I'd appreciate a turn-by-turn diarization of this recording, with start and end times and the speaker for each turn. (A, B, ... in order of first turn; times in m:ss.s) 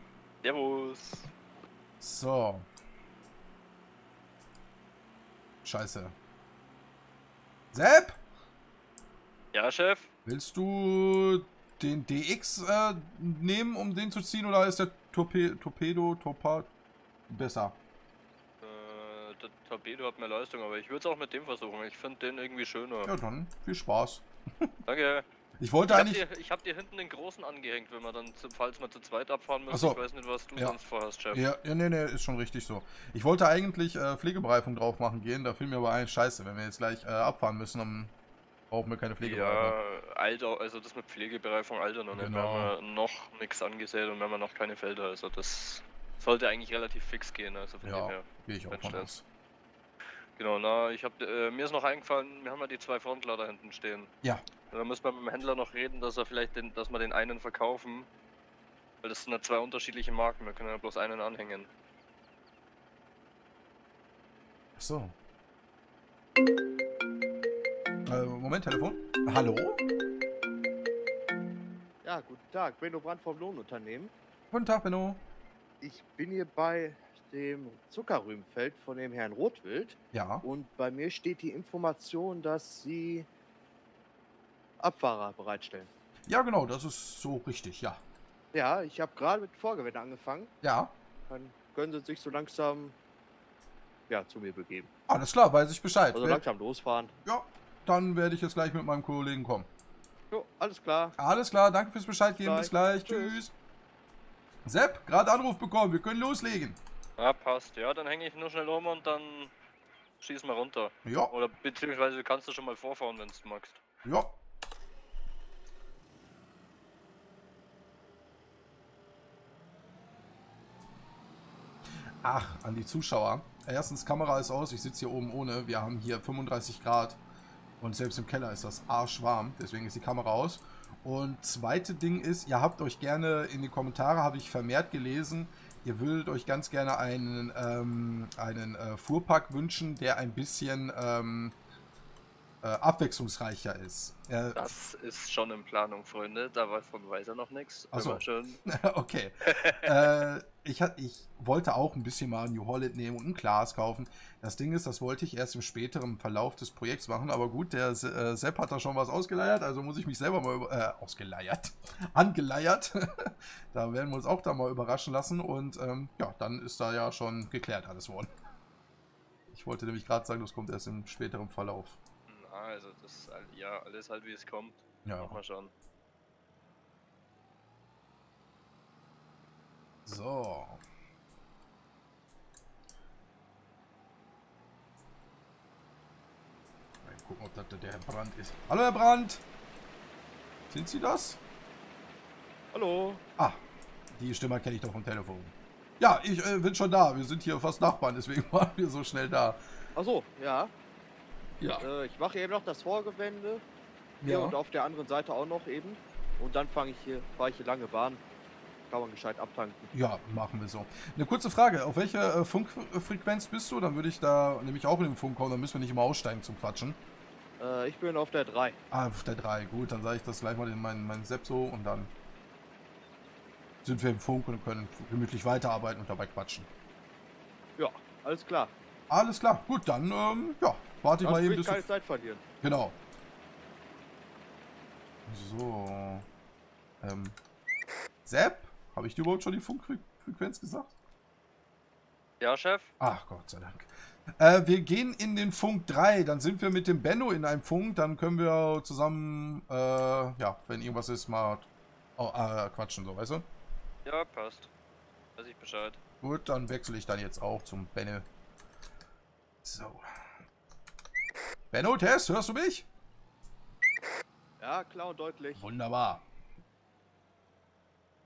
0:00.4-0:01.3 A
0:02.0-0:02.7 B
0:05.6-0:06.2 B
0:07.7-0:08.2 B
0:09.5-0:10.1 A
0:10.2-0:16.7 B
0:17.3-0:17.8 B
0:18.6-0:23.1 A
0:23.0-0:24.8 B
0:24.9-0:25.3 A
0:25.6-0:26.2 B
0:25.9-0:31.4 A
0:29.7-0:30.0 B
0:31.3-0:38.1 B
0:38.7-0:39.8 B
0:39.2-0:49.1 A
0:42.1-0:42.7 B
0:47.8-0:49.2 B
0:50.4-0:54.1 A
0:54.7-0:58.1 A
0:59.0-1:01.7 A
1:04.8-1:05.2 B
1:08.1-1:09.8 B
1:12.0-1:14.1 C
1:14.5-1:15.2 B
1:15.8-1:23.3 C
1:20.1-1:20.4 B
1:24.8-1:25.9 C
1:26.3-1:28.0 B
1:28.5-1:30.5 C
1:30.6-1:31.0 B
1:31.3-1:33.0 C
1:34.1-1:34.9 C
1:35.1-1:36.4 B
1:36.1-1:37.1 C
1:37.2-1:39.7 B
1:40.3-1:41.2 C
1:41.2-1:43.5 B
1:42.4-1:43.4 C
1:44.6-1:46.8 B
1:47.2-1:49.5 A
1:50.2-1:53.8 A
1:51.0-1:51.3 B
1:54.0-1:54.3 B
2:02.2-2:07.2 B
2:07.8-2:21.6 B
2:22.6-2:24.6 B
2:24.6-2:28.6 A
2:27.9-2:48.3 B
2:29.5-2:30.2 A
2:49.5-2:52.0 B
2:52.3-2:55.7 A
2:55.0-2:55.4 B
3:00.1-3:00.8 B
3:07.0-3:09.4 B
3:10.7-3:11.4 B
3:12.7-3:13.2 C
3:14.1-3:19.6 B
3:20.0-3:20.7 C
3:21.6-3:21.9 B
3:21.8-3:23.6 C
3:24.2-3:24.6 B
3:24.2-3:28.2 C
3:28.9-3:29.9 C
3:29.9-3:37.0 B
3:37.6-3:38.8 C
3:38.9-3:42.1 B
3:43.8-3:46.7 B
3:47.8-3:48.7 C
3:49.1-3:51.8 B
3:51.2-3:52.4 C
3:52.6-3:53.0 B
3:55.3-3:56.2 B
3:57.0-3:57.4 B
3:58.2-4:00.9 B
4:02.4-4:02.9 A
4:03.0-4:13.5 B
4:14.0-4:14.7 A
4:15.4-4:16.0 A
4:16.2-4:18.3 B
4:19.6-4:20.1 B
4:21.7-4:22.9 B
4:24.6-4:25.6 C
4:25.6-4:26.2 B